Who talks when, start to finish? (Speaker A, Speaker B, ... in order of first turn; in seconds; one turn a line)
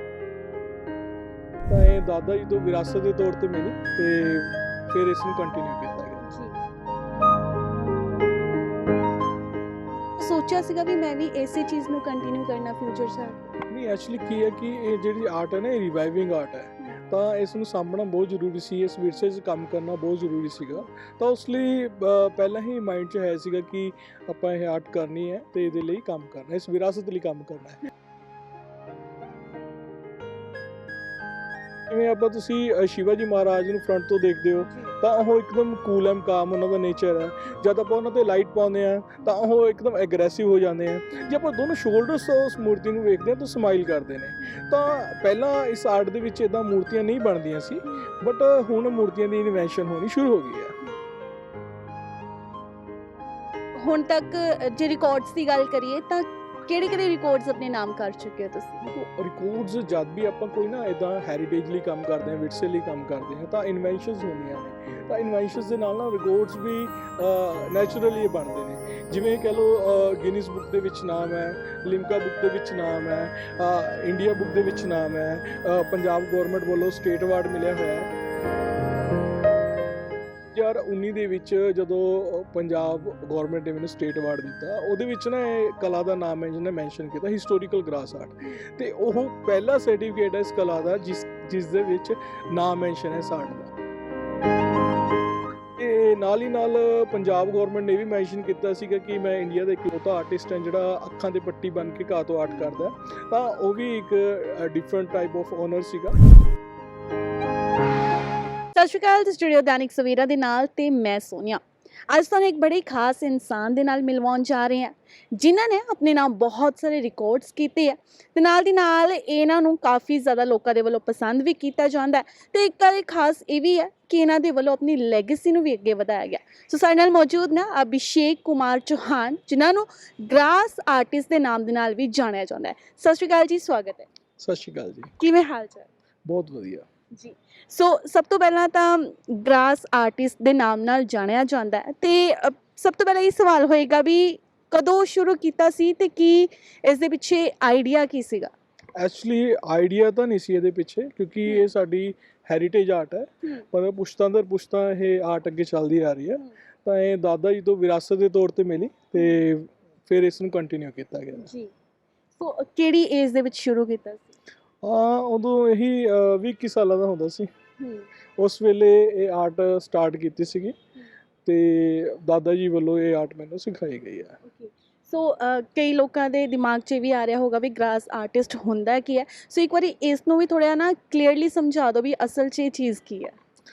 Speaker A: 1.6-6.3
Speaker B: 6.2-6.5
Speaker B: 10.2-13.4
Speaker A: 13.7-27.8
Speaker A: 31.9-50.7
Speaker B: 34.5-34.9
Speaker B: 47.8-48.1
Speaker B: 53.7-58.8
Speaker A: 58.8-78.1
Speaker A: 80.5-93.7
Speaker A: 95.8-106.2
Speaker B: 108.7-134.1
Speaker A: 134.4-135.1
Speaker B: 135.2-135.9
Speaker A: 136.2-136.8
Speaker B: 137.1-148.5
Speaker A: 149.0-161.5
Speaker B: 151.4-151.7
Speaker B: 159.2-159.4
Speaker B: 161.3-161.7
Speaker B: 162.4-164.3
Speaker A: 164.8-167.5
Speaker B: 167.8-168.1
Speaker A: 168.4-170.7
Speaker A: 171.4-174.4
Speaker B: 174.4-183.3